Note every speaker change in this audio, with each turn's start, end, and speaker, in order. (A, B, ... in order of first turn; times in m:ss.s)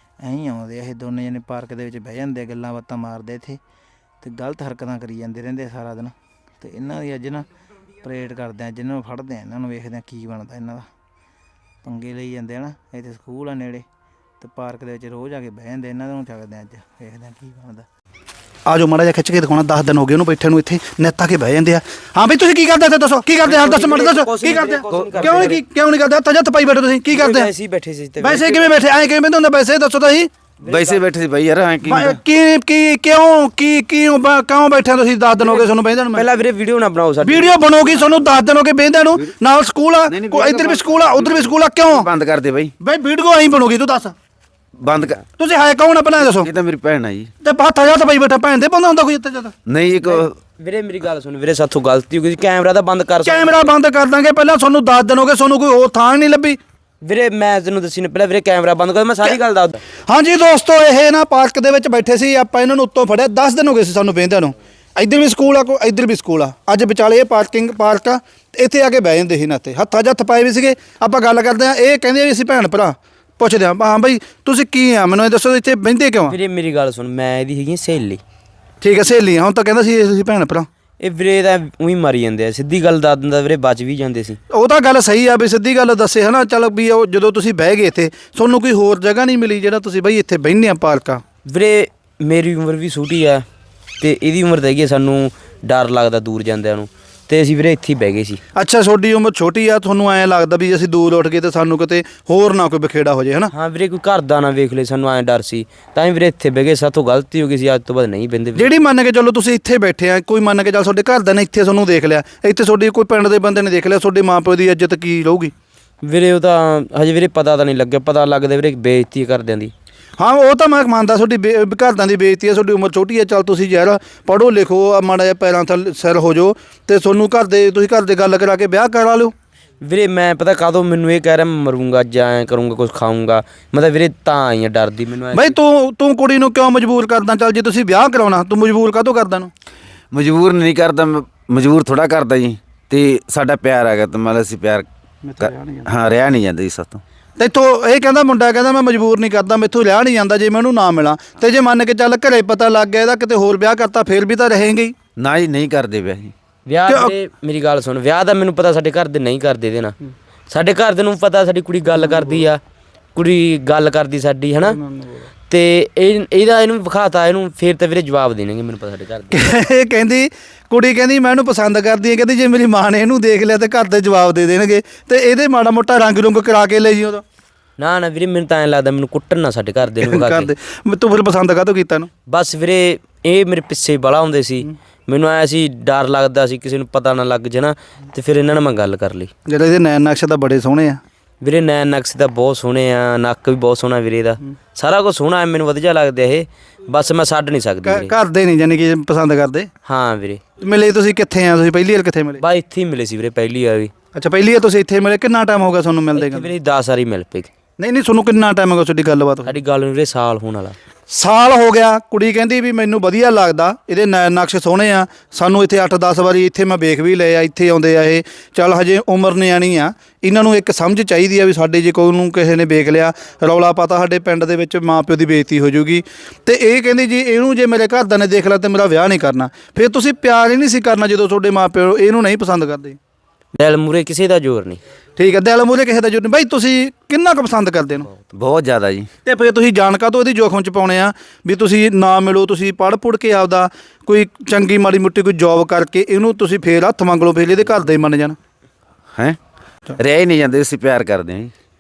0:00.2-0:03.6 A
0:04.2-0:07.5 A
0:08.0-0:10.9 A
0:11.8-0:13.8 A
0:14.4-0:17.9 A
0:18.7-0:27.5 B
0:23.4-0:25.6 C
0:24.9-0:25.5 D
0:27.1-0:28.8 C
0:28.2-0:30.3 B
0:30.6-0:31.0 C
0:30.7-0:32.2 D
0:31.8-0:36.2 B
0:35.4-0:38.2 C
0:37.2-0:42.1 B
0:40.1-0:42.7 D
0:42.8-0:44.2 B
0:44.8-0:45.2 D
0:45.4-0:46.5 B
0:46.2-0:47.3 D
0:47.4-0:49.5 B
0:49.7-0:50.4 D
0:50.0-0:53.7 C
0:53.2-0:56.6 B
0:57.0-0:59.8 C
1:00.1-1:16.4 B
1:16.3-1:18.2 C
1:18.8-1:20.7 B
1:21.0-1:24.4 C
1:24.5-1:31.2 B
1:31.5-1:33.4 C
1:34.0-1:38.4 C
1:38.6-1:43.5 B
1:43.5-1:48.7 C
1:48.6-1:55.5 B
1:56.0-1:59.7 C
2:00.2-2:09.3 B
2:09.8-2:15.6 C
2:15.3-2:19.5 B
2:20.1-2:24.9 D
2:25.3-2:25.9 B
2:25.4-2:27.0 D
2:27.4-2:35.0 B
2:35.2-2:36.3 D
2:36.7-2:40.0 C
2:36.9-2:37.1 B
2:40.5-2:42.6 C
2:42.0-2:42.4 B
2:43.2-2:44.8 C
2:44.8-2:45.2 B
2:45.5-2:49.4 C
2:49.3-2:57.2 B
2:57.8-3:00.5 C
3:00.0-3:02.1 B
3:02.3-3:09.3 C
3:09.5-3:11.0 B
3:11.4-3:18.1 C
3:17.8-3:19.7 B
3:19.8-3:20.4 C
3:20.6-3:22.4 B
3:22.4-3:23.9 C
3:24.1-3:26.5 B
3:26.2-3:27.5 C
3:27.8-3:29.6 B
3:29.5-3:30.8 C
3:31.1-3:53.0 B
3:53.6-3:54.8 C
3:55.2-3:58.1 B
3:58.3-3:59.1 D
3:59.2-4:08.4 B
4:10.0-4:11.5 D